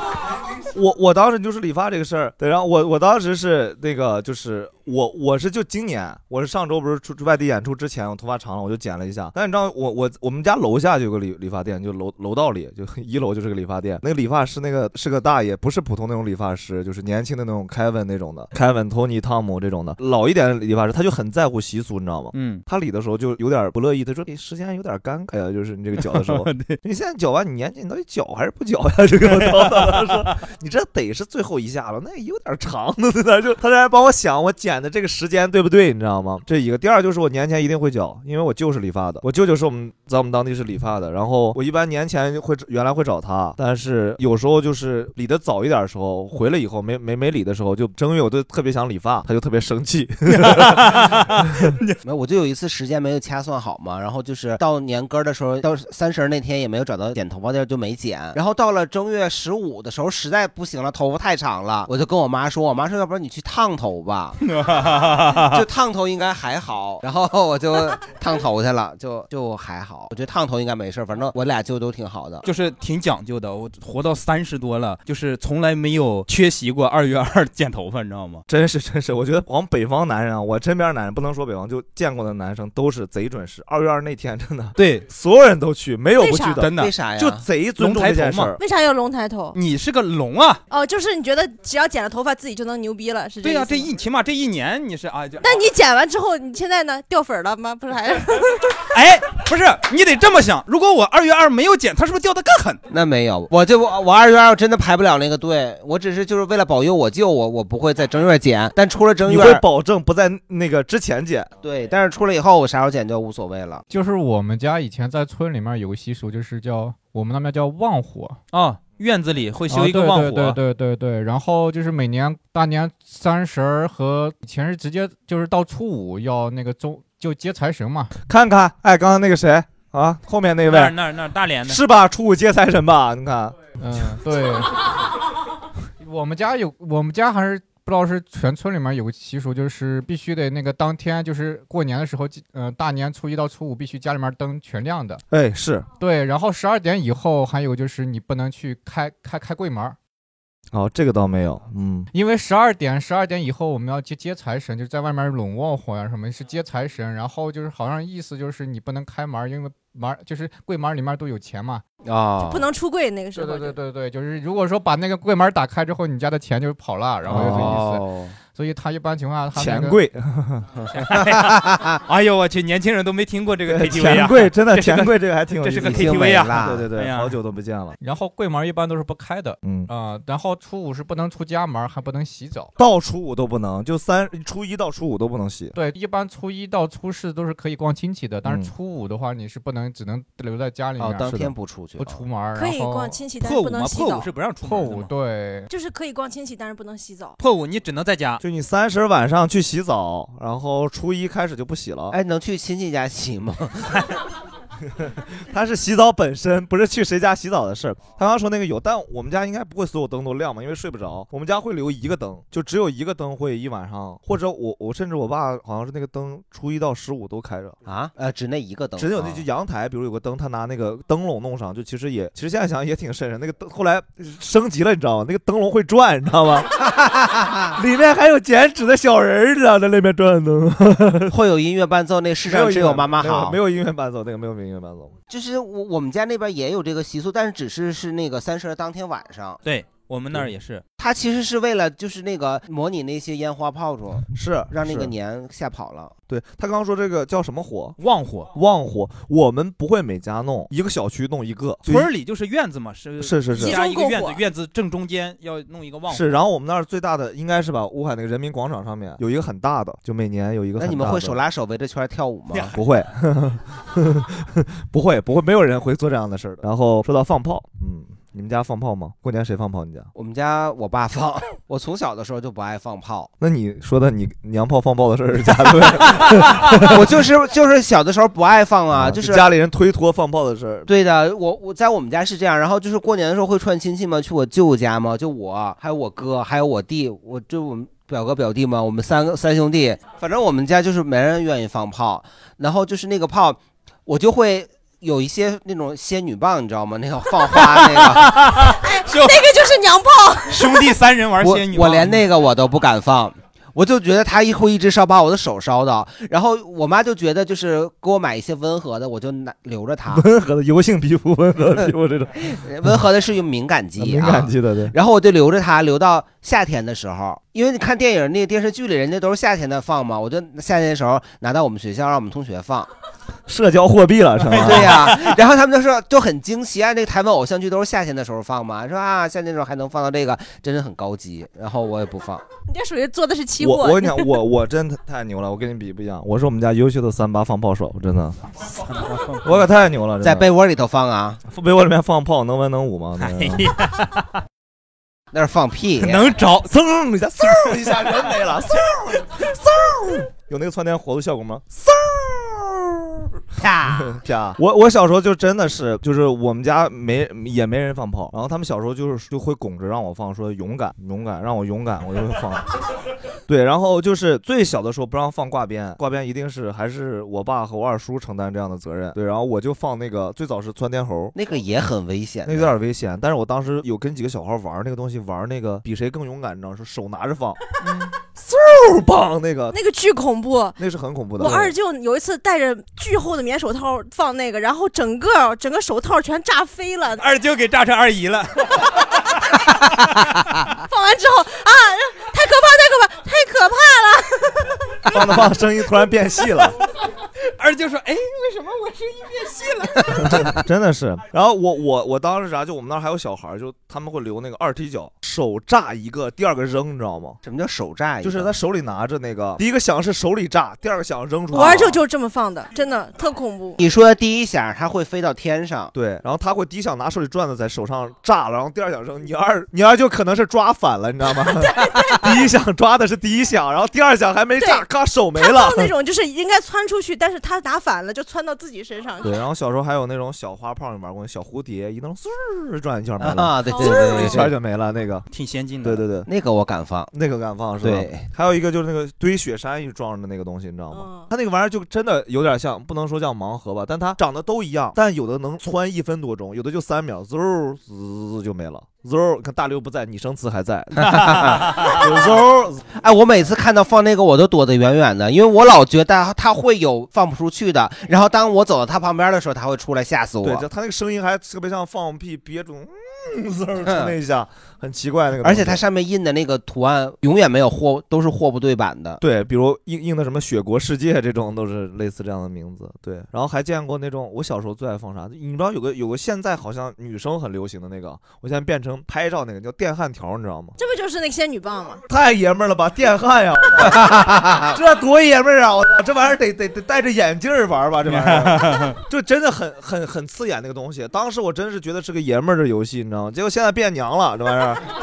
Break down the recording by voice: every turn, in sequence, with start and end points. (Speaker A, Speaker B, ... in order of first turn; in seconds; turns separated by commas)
Speaker A: 0.7-51.0, Speaker B: 22.3-22.6, Speaker B: 26.0-26.8, Speaker B: 29.2-30.1, Speaker B: 50.3-52.0, Speaker C: 52.0-64.4, Speaker B: 64.4-65.6, Speaker C: 65.4-72.4, Speaker B: 72.4-78.4, Speaker A: 78.5-88.6, Speaker B: 84.8-85.0, Speaker D: 86.2-86.6, Speaker B: 86.6-86.9, Speaker C: 86.7-87.4, Speaker B: 87.8-88.5, Speaker D: 88.6-89.5, Speaker B: 89.5-90.6, Speaker D: 90.7-93.9, Speaker B: 93.4-95.6, Speaker D: 95.4-98.8, Speaker B: 98.9-102.8, Speaker C: 102.9-109.6, Speaker A: 109.2-111.5, Speaker C: 111.6-113.8, Speaker E: 113.9-118.4, Speaker B: 118.5-120.6, Speaker E: 119.7-128.1, Speaker A: 128.2-131.0, Speaker B: 130.7-131.8, Speaker A: 131.6-133.6, Speaker E: 133.8-134.7, Speaker E: 136.0-145.2, Speaker A: 145.3-145.9, Speaker E: 146.0-149.9, Speaker A: 150.7-152.1, Speaker E: 152.1-161.8, Speaker C: 162.0-162.7, Speaker D: 162.4-163.8, Speaker E: 163.3-170.0, Speaker A: 167.2-167.8, Speaker C: 167.3-168.3, Speaker A: 169.6-170.7, Speaker C: 170.8-172.0, Speaker B: 170.9-177.3, Speaker A: 173.7-178.0, Speaker C: 175.8-176.8, Speaker E: 178.0-182.7, Speaker A: 179.6-179.9, Speaker A: 182.8-185.7, Speaker E: 185.7-191.4, Speaker A: 188.4-188.7, Speaker C: 191.0-192.2, Speaker A: 191.2-191.5, Speaker E: 192.0-193.2, Speaker D: 192.5-194.3, Speaker B: 193.4-195.1, Speaker E: 194.6-195.7, Speaker D: 195.7-197.4, Speaker B: 197.4-198.4, Speaker A: 198.4-202.2, Speaker C: 202.1-203.9, Speaker A: 205.0-217.8, Speaker C: 217.9-219.4, Speaker A: 218.9-226.7, Speaker C: 226.8-227.8, Speaker A: 227.8-231.3, Speaker C: 231.3-233.6, Speaker A: 232.4-235.2, Speaker C: 235.3-239.6, Speaker B: 239.6-240.8, Speaker C: 241.0-246.1, Speaker A: 244.3-245.1, Speaker A: 246.3-248.0, Speaker B: 248.0-248.5, Speaker A: 248.5-252.1, Speaker B: 251.8-256.3, Speaker A: 253.2-253.8, Speaker D: 253.5-254.4, Speaker A: 256.1-261.4, Speaker C: 260.8-262.8, Speaker A: 262.7-270.1, Speaker C: 270.1-273.3, Speaker A: 273.4-277.0, Speaker C: 276.7-279.5, Speaker A: 278.9-280.9, Speaker C: 280.9-298.3, Speaker B: 297.9-299.4, Speaker D: 298.5-300.9, Speaker B: 300.5-302.2, Speaker C: 301.4-310.2, Speaker A: 310.1-313.0, Speaker C: 312.5-322.9, Speaker A: 314.0-314.9, Speaker A: 323.5-325.2, Speaker C: 324.5-332.4, Speaker B: 324.5-325.3, Speaker D: 332.6-334.4, Speaker A: 333.6-338.4, Speaker B: 339.0-339.4, Speaker A: 339.4-340.5, Speaker C: 340.2-341.4, Speaker A: 341.5-343.8, Speaker B: 343.2-344.3, Speaker C: 345.3-346.3, Speaker B: 346.0-346.7, Speaker A: 346.6-353.3, Speaker C: 353.6-354.2, Speaker A: 353.8-362.7, Speaker A: 363.5-371.3, Speaker C: 371.3-372.7, Speaker A: 372.4-377.6, Speaker A: 378.3-379.8, Speaker D: 379.7-380.8, Speaker A: 380.8-381.7, Speaker D: 381.4-387.2, Speaker B: 387.2-389.0, Speaker D: 390.8-395.2, Speaker A: 395.1-396.8, Speaker B: 397.5-399.4, Speaker D: 399.1-400.1, Speaker C: 400.1-400.5, Speaker A: 400.1-407.4, Speaker C: 407.4-408.5, Speaker A: 408.2-412.0, Speaker D: 411.5-413.8, Speaker C: 413.8-415.9, Speaker A: 415.9-425.9, Speaker D: 421.4-422.4, Speaker D: 424.6-429.4, Speaker A: 429.2-435.3, Speaker C: 433.2-434.5, Speaker D: 433.6-434.3, Speaker B: 435.3-436.0, Speaker A: 435.8-436.3, Speaker C: 436.2-437.1, Speaker A: 437.1-452.8, Speaker C: 437.8-438.2, Speaker D: 440.9-441.3, Speaker C: 451.0-452.3, Speaker C: 452.9-460.6, Speaker A: 460.4-465.8, Speaker C: 463.9-464.1, Speaker C: 465.4-469.2, Speaker A: 469.2-480.7, Speaker D: 480.8-482.0, Speaker A: 482.1-494.8, Speaker C: 483.9-484.7, Speaker B: 488.1-488.9